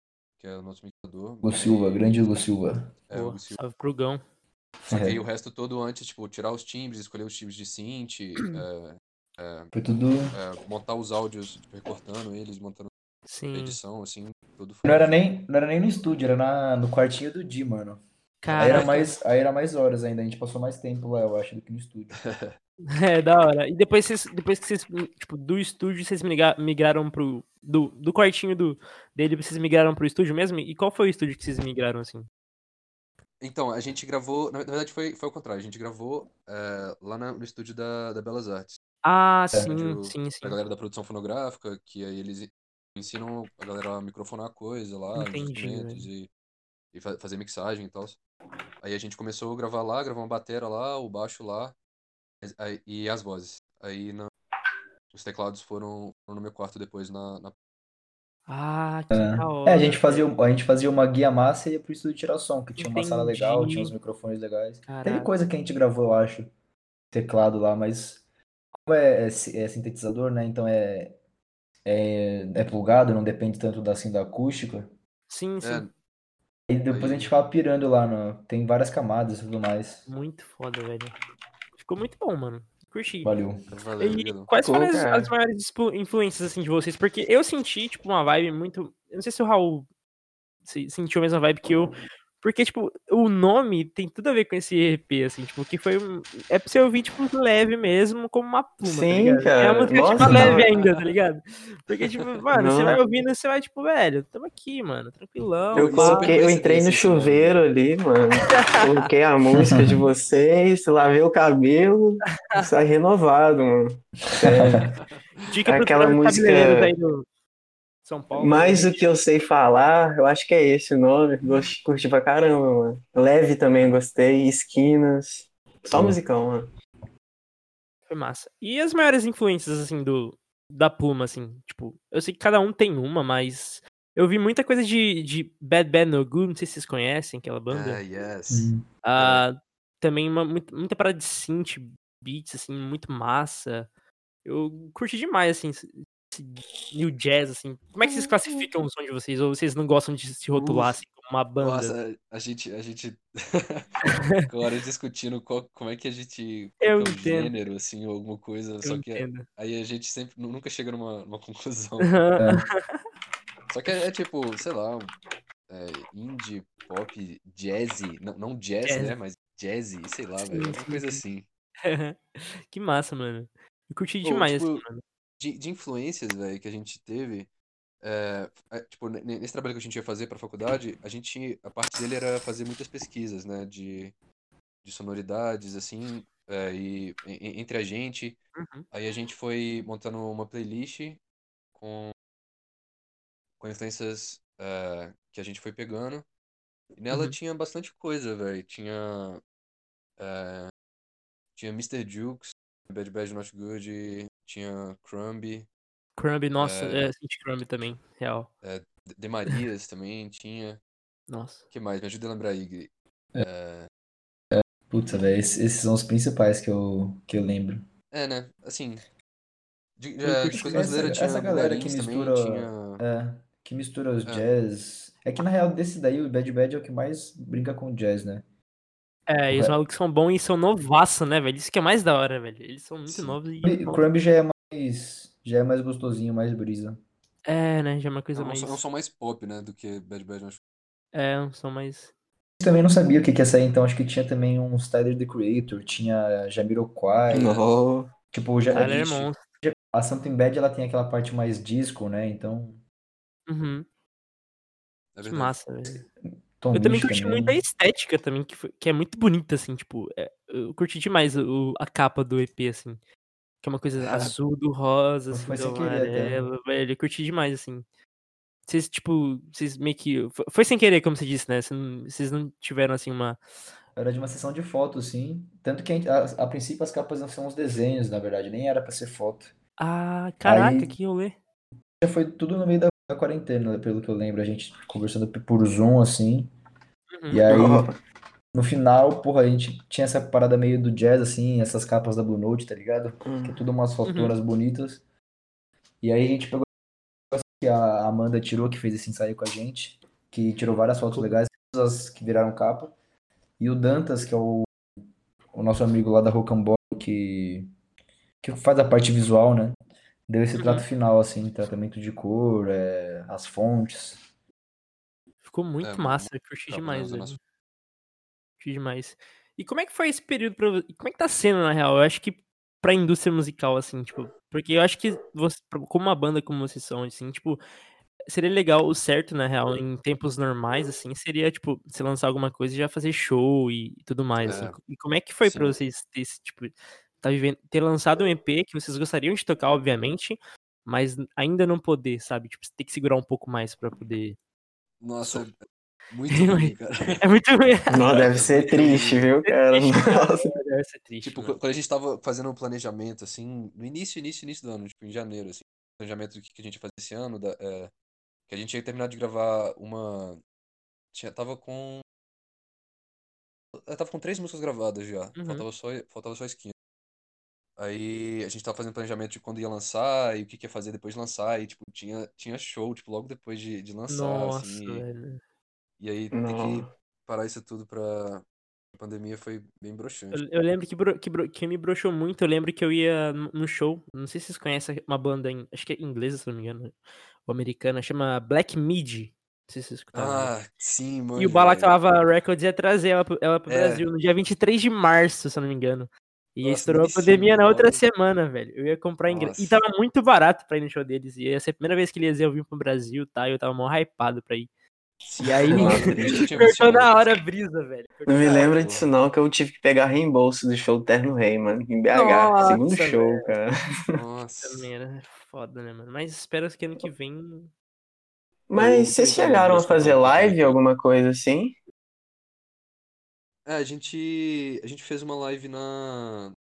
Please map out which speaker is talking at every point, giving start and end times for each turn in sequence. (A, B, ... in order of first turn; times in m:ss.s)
0:00.4-0:02.4 A
0:01.4-0:02.9 B
0:03.1-0:03.6 A
0:03.1-0:04.2 C
0:04.9-0:05.2 B
0:04.9-0:09.7 A
0:09.7-0:10.4 B
0:10.3-0:12.9 A
0:13.3-0:13.8 C
0:13.5-0:15.1 A
0:14.8-0:18.0 B
0:18.4-0:19.2 C
0:18.5-0:22.2 B
0:22.2-0:22.6 A
0:22.9-0:32.3 C
0:33.4-0:38.8 A
0:39.0-0:40.6 C
0:39.6-0:46.3 A
0:45.2-0:46.1 C
0:46.9-0:48.2 A
0:48.8-0:51.8 A
0:52.4-0:54.3 A
0:55.1-0:57.5 A
0:58.5-1:00.2 C
0:59.1-1:06.5 B
1:02.8-1:04.0 C
1:04.9-1:05.3 C
1:07.1-1:08.2 B
1:08.8-1:11.2 B
1:11.8-1:14.9 B
1:15.3-1:15.9 C
1:15.6-1:15.9 A
1:16.7-1:20.1 B
1:16.9-1:17.3 A
1:20.1-1:21.2 C
1:21.8-1:23.3 C
1:23.2-1:23.6 B
1:23.7-1:24.5 A
1:24.0-1:29.9 C
1:24.6-1:25.3 D
1:30.6-1:46.4 C
1:38.8-1:40.7 D
1:40.2-1:40.6 B
1:42.5-1:43.0 D
1:45.7-1:47.6 A
1:45.7-1:54.8 D
1:49.6-1:50.0 B
1:54.4-1:54.8 B
1:55.4-1:57.2 C
1:55.6-1:56.9 D
1:58.0-1:59.1 C
1:58.3-2:06.7 D
2:05.9-2:06.2 B
2:08.1-2:18.0 C
2:17.7-2:19.4 A
2:18.5-2:18.8 B
2:19.0-2:23.9 C
2:24.4-2:31.9 C
2:31.6-2:42.2 A
2:34.0-2:34.5 C
2:36.8-2:37.6 C
2:38.8-2:39.5 C
2:42.0-2:43.0 C
2:42.4-2:42.6 B
2:43.7-2:45.1 A
2:45.7-2:51.5 A
2:48.9-2:49.1 C
2:50.5-2:51.2 C
2:51.8-2:55.0 C
2:54.2-2:54.8 A
2:55.4-2:57.5 A
2:58.0-3:04.2 A
3:04.8-3:08.4 A
3:08.6-3:08.9 C
3:08.9-3:11.2 A
3:11.8-3:12.1 A
3:13.6-3:16.2 A
3:17.0-3:19.4 A
3:20.2-3:20.7 A
3:21.6-3:25.7 A
3:26.2-3:28.5 C
3:26.6-3:27.1 A
3:28.6-3:30.8 A
3:31.3-3:31.6 C
3:31.7-3:33.9 A
3:34.5-3:37.8 B
3:38.1-3:39.0 A
3:40.0-3:43.0 A
3:40.2-3:41.1 C
3:40.5-3:48.4 B
3:49.3-3:54.0 C
3:53.1-3:53.4 A
3:53.6-3:57.0 B
3:57.5-3:58.8 C
3:58.4-4:00.6 A
4:01.1-4:02.1 C
4:02.6-4:07.6 B
4:07.3-4:08.1 D
4:08.3-4:12.8 B
4:08.7-4:09.4 C
4:13.5-4:13.9 C
4:15.2-4:15.6 A
4:15.2-4:16.0 C
4:16.6-4:17.6 B
4:16.7-4:23.0 C
4:23.6-4:27.8 C
4:25.3-4:26.4 B
4:28.7-4:33.4 C
4:34.0-4:39.5 B
4:39.8-4:41.4 C
4:40.4-4:41.0 B
4:42.0-4:46.5 B
4:47.1-4:47.4 C
4:47.3-4:47.9 B
4:47.5-4:48.0 D
4:48.5-4:55.0 B
4:53.2-4:53.6 D
4:54.0-4:54.4 C
4:56.0-4:56.7 B
4:57.3-5:03.0 B
5:03.6-5:04.7 B
5:05.5-5:07.7 B
5:08.4-5:14.2 B
5:10.6-5:10.8 C
5:15.4-5:17.4 C
5:15.8-5:17.4 A
5:18.6-5:27.6 C
5:28.3-5:44.4 C
5:34.4-5:34.8 A
5:35.4-5:35.8 A
5:45.0-5:45.6 A
5:46.1-5:47.2 A
5:46.3-5:48.1 C
5:47.9-5:50.6 D
5:48.1-5:49.3 A
5:49.5-5:51.6 C
5:51.2-5:57.9 A
5:58.5-6:00.4 A
6:01.1-6:02.0 A
6:03.8-6:06.7 A
6:05.4-6:05.6 C
6:07.8-6:15.0 A
6:14.1-6:15.4 C
6:16.0-6:18.4 A
6:16.3-6:16.9 D
6:19.0-6:20.4 A
6:20.3-6:27.0 C
6:27.5-6:30.5 C
6:30.1-6:32.0 A
6:31.4-6:44.7 C
6:33.7-6:34.0 A
6:36.6-6:38.0 A
6:39.3-6:39.8 A
6:45.3-6:46.5 D
6:45.4-6:48.8 C
6:45.7-6:47.4 A
6:48.3-6:54.0 D
6:48.6-6:49.0 A
6:52.1-6:53.5 C
6:54.1-6:54.9 A
6:54.6-6:57.7 C
6:58.7-7:01.8 D
6:58.8-7:00.8 A
7:03.6-7:06.6 A